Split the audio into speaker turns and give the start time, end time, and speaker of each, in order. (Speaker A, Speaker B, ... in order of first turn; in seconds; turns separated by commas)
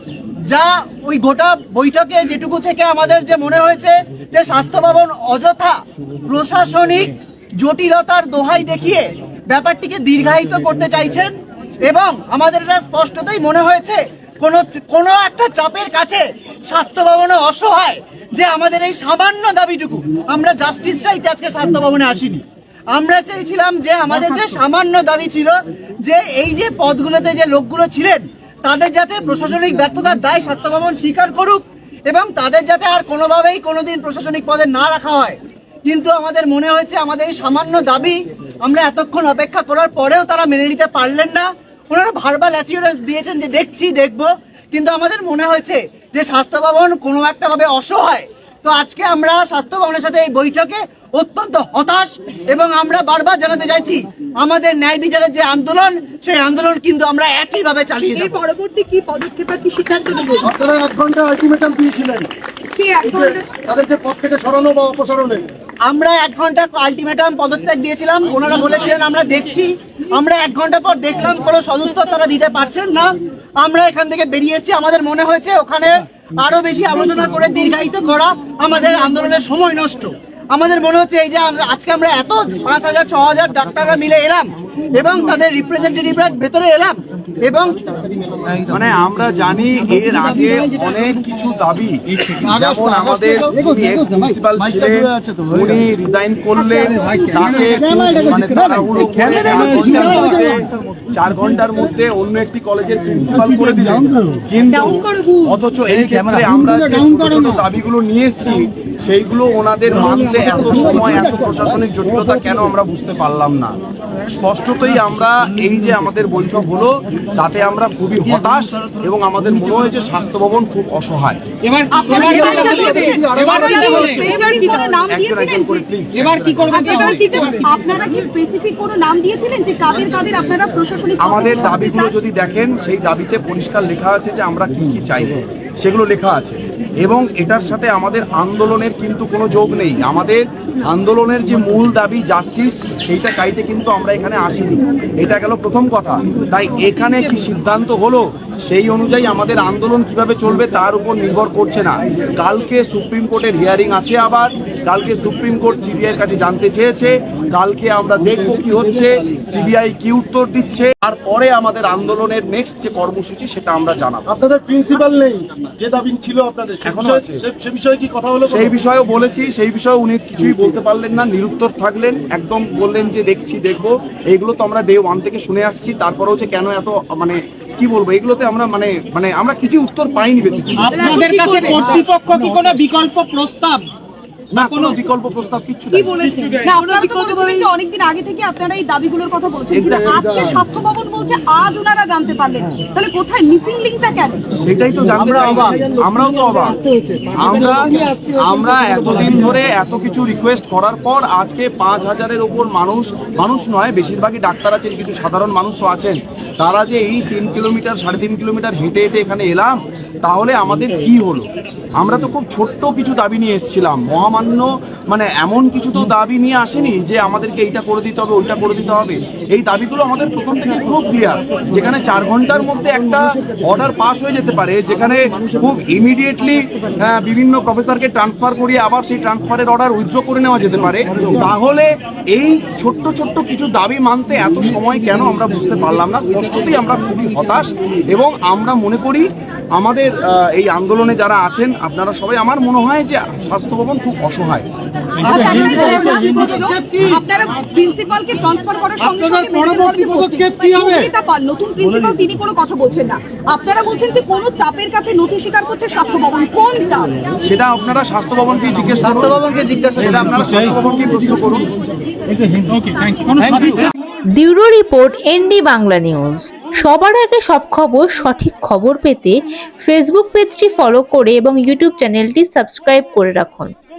Speaker A: 0.4-11.3, Speaker A: 11.8-22.4, Speaker A: 22.9-58.3, Speaker B: 58.1-60.5, Speaker C: 60.4-62.3, Speaker B: 62.8-63.5, Speaker C: 63.0-65.5, Speaker A: 65.8-88.0, Speaker D: 88.6-121.4, Speaker C: 92.5-93.6, Speaker C: 94.6-95.5, Speaker B: 96.8-97.6, Speaker C: 97.7-98.1, Speaker C: 99.2-99.5, Speaker E: 121.6-124.9, Speaker B: 121.9-125.9, Speaker C: 122.2-124.6, Speaker D: 122.2-122.5, Speaker D: 125.1-127.2, Speaker E: 126.1-127.7, Speaker B: 126.7-132.1, Speaker D: 131.2-164.3, Speaker C: 164.3-168.7, Speaker D: 166.8-167.4, Speaker D: 168.4-181.2, Speaker E: 180.8-183.9, Speaker B: 180.9-182.0, Speaker A: 181.0-181.5, Speaker D: 184.5-186.4, Speaker E: 184.5-184.9, Speaker E: 186.0-187.6, Speaker B: 186.6-194.5, Speaker D: 189.7-190.3, Speaker D: 194.6-196.8, Speaker C: 195.2-195.9, Speaker D: 197.3-211.4, Speaker C: 197.4-197.9, Speaker D: 212.0-244.7, Speaker B: 245.2-257.1, Speaker D: 257.4-261.8, Speaker A: 259.7-260.1, Speaker E: 262.7-263.8, Speaker D: 263.4-263.9, Speaker F: 264.4-273.7